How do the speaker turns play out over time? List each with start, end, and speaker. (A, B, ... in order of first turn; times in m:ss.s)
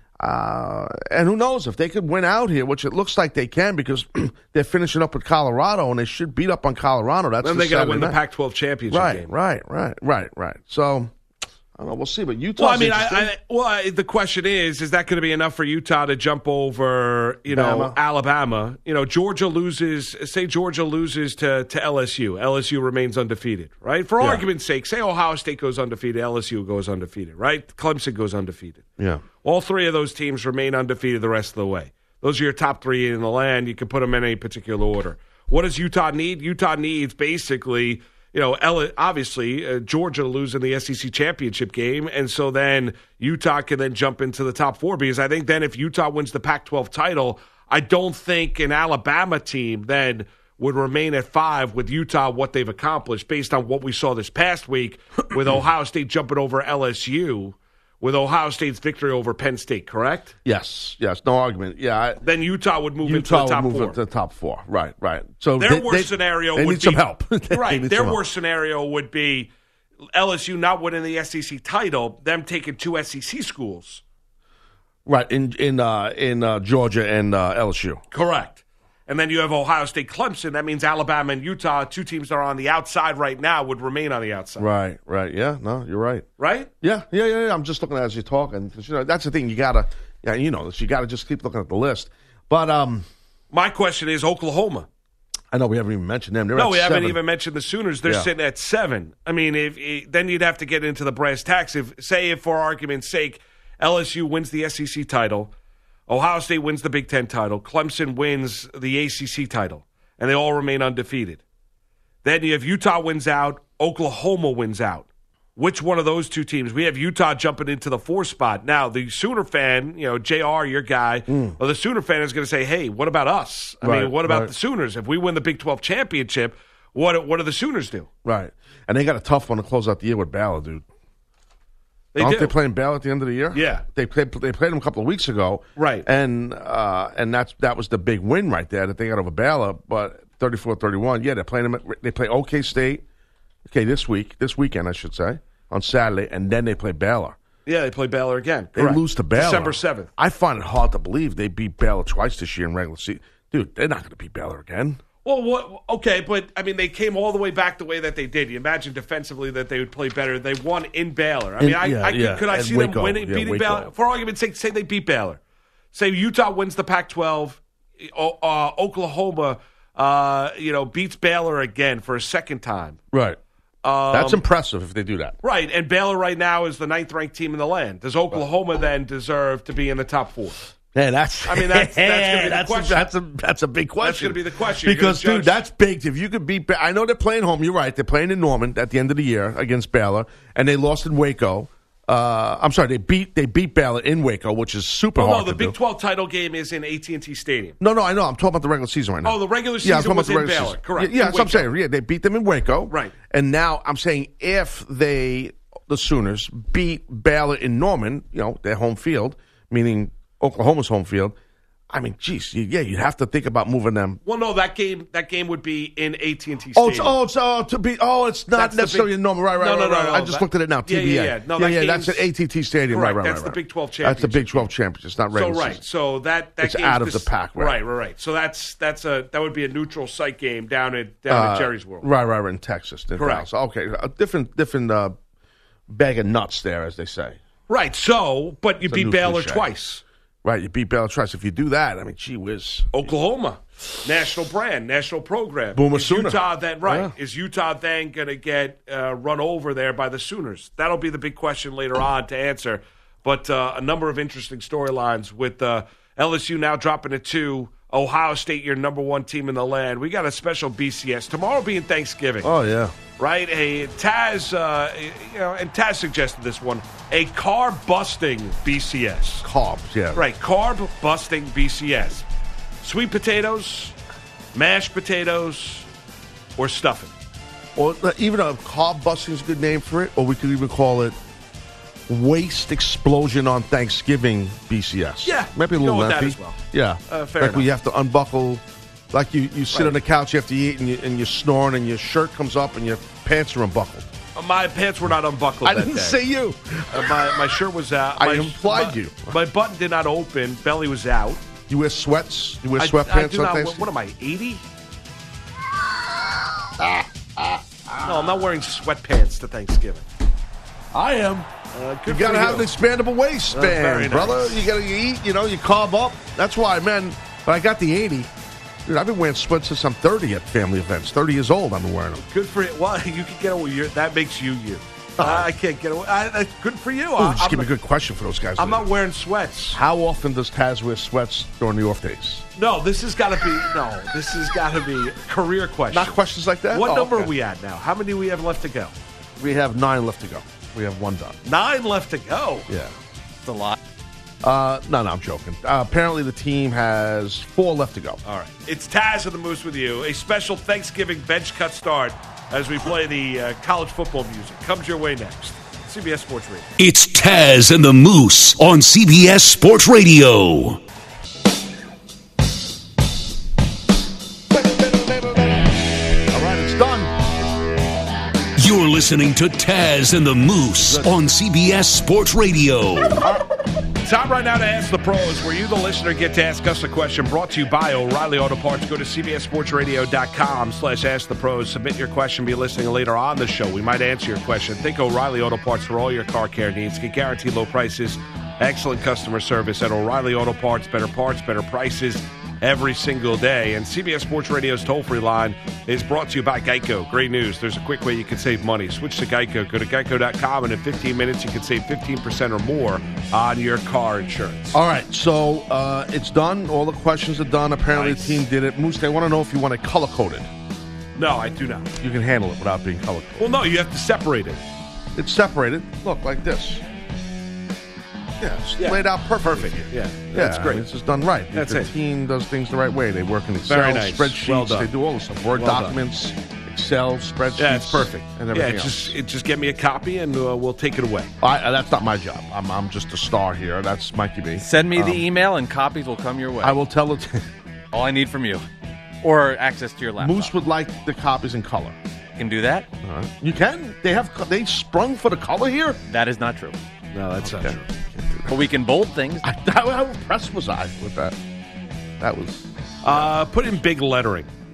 0:00.2-0:08.2 A
0:07.4-0:09.3 B
0:08.9-0:11.1 A
0:11.8-0:13.3 A
0:12.6-0:28.8 B
0:17.5-0:18.0 A
0:24.2-0:24.4 A
0:29.0-0:29.2 A
0:29.4-1:00.3 B
1:00.4-1:02.2 A
1:02.2-1:04.0 B
1:03.0-1:08.2 A
1:05.6-1:09.5 B
1:10.1-1:14.0 B
1:15.0-1:18.0 A
1:18.1-1:24.7 B
1:24.6-1:26.2 A
1:26.4-1:26.7 B
1:26.8-1:33.0 A
1:33.5-1:34.9 B
1:35.5-1:37.2 A
1:36.5-1:45.5 B
1:46.1-1:51.4 B
1:52.2-2:08.1 B
2:01.3-2:01.6 A
2:03.8-2:04.5 A
2:08.2-2:10.8 A
2:12.1-2:12.5 B
2:12.2-2:23.0 A
2:13.5-2:13.8 B
2:15.8-2:16.0 B
2:23.6-2:27.4 A
2:27.6-2:30.1 B
2:28.7-2:35.0 A
2:35.2-2:45.4 B
2:41.6-2:43.9 A
2:45.9-2:53.0 B
2:53.1-2:53.4 A
2:53.8-2:54.4 B
2:54.1-2:55.4 A
2:55.4-3:00.6 B
3:00.9-3:15.8 A
3:01.5-3:03.1 B
3:04.0-3:05.6 B
3:15.2-3:17.8 B
3:17.8-3:31.4 A
3:19.2-3:21.7 B
3:22.9-3:23.1 B
3:31.9-3:34.2 A
3:34.2-3:37.2 B
3:36.7-3:45.8 A
3:38.5-3:42.2 B
3:42.9-3:44.7 B
3:45.3-3:52.1 B
3:46.6-3:47.8 A
3:51.3-3:55.2 A
3:53.2-3:53.5 B
3:55.9-3:57.4 A
3:57.7-4:00.0 B
3:58.8-3:59.7 A
4:00.4-4:03.1 A
4:02.9-4:22.5 B
4:05.7-4:07.1 A
4:22.4-4:23.0 A
4:23.2-4:29.4 B
4:29.4-4:30.2 A
4:30.1-4:32.2 B
4:32.8-4:33.9 B
4:34.5-4:35.9 B
4:36.6-4:37.1 B
4:37.8-4:41.2 A
4:42.1-4:54.1 A
4:45.2-4:47.7 B
4:54.3-4:56.2 B
4:55.6-4:57.4 A
4:56.9-5:01.4 B
4:58.2-4:59.3 A
5:01.7-5:03.8 A
5:02.8-5:04.6 B
5:06.8-5:08.2 A
5:08.0-5:10.1 B
5:10.9-5:11.5 A
5:11.7-5:12.7 B
5:12.0-5:18.3 A
5:13.5-5:14.6 B
5:18.8-5:22.2 A
5:22.2-5:27.7 B
5:25.2-5:25.5 A
5:27.2-5:28.9 A
5:28.6-5:29.8 B
5:29.7-5:32.4 A
5:32.6-5:36.2 B
5:35.9-5:37.3 A
5:36.7-5:38.9 B
5:39.4-5:41.4 A
5:41.4-5:42.7 B
5:42.7-5:42.9 A
5:43.4-5:43.8 C
5:44.4-5:48.2 A
5:48.2-5:56.7 B
5:56.8-6:00.8 D
6:04.5-6:07.1 A
6:08.6-6:13.2 D
6:10.8-6:11.1 A
6:14.0-6:44.8 B
6:44.7-6:50.5 A
6:47.9-6:48.4 B
6:51.2-6:51.9 B
6:52.0-6:53.6 A
6:53.4-6:54.6 B
6:55.2-6:56.8 A
6:58.4-7:09.2 A
6:58.8-7:00.8 B
7:01.5-7:01.9 B
7:03.7-7:04.9 B
7:05.5-7:06.0 B
7:07.6-7:11.3 B
7:11.4-7:15.3 A
7:14.6-7:16.8 C
7:16.6-7:17.5 A
7:17.9-7:18.6 C
7:19.2-7:20.5 C
7:20.2-7:22.0 A
7:22.4-7:22.9 C
7:23.0-7:26.0 A
7:26.1-7:26.8 C
7:27.1-7:27.8 B
7:27.4-7:28.7 A
7:28.5-7:29.4 C
7:29.4-7:31.4 A
7:32.2-7:33.3 A
7:33.0-7:34.5 B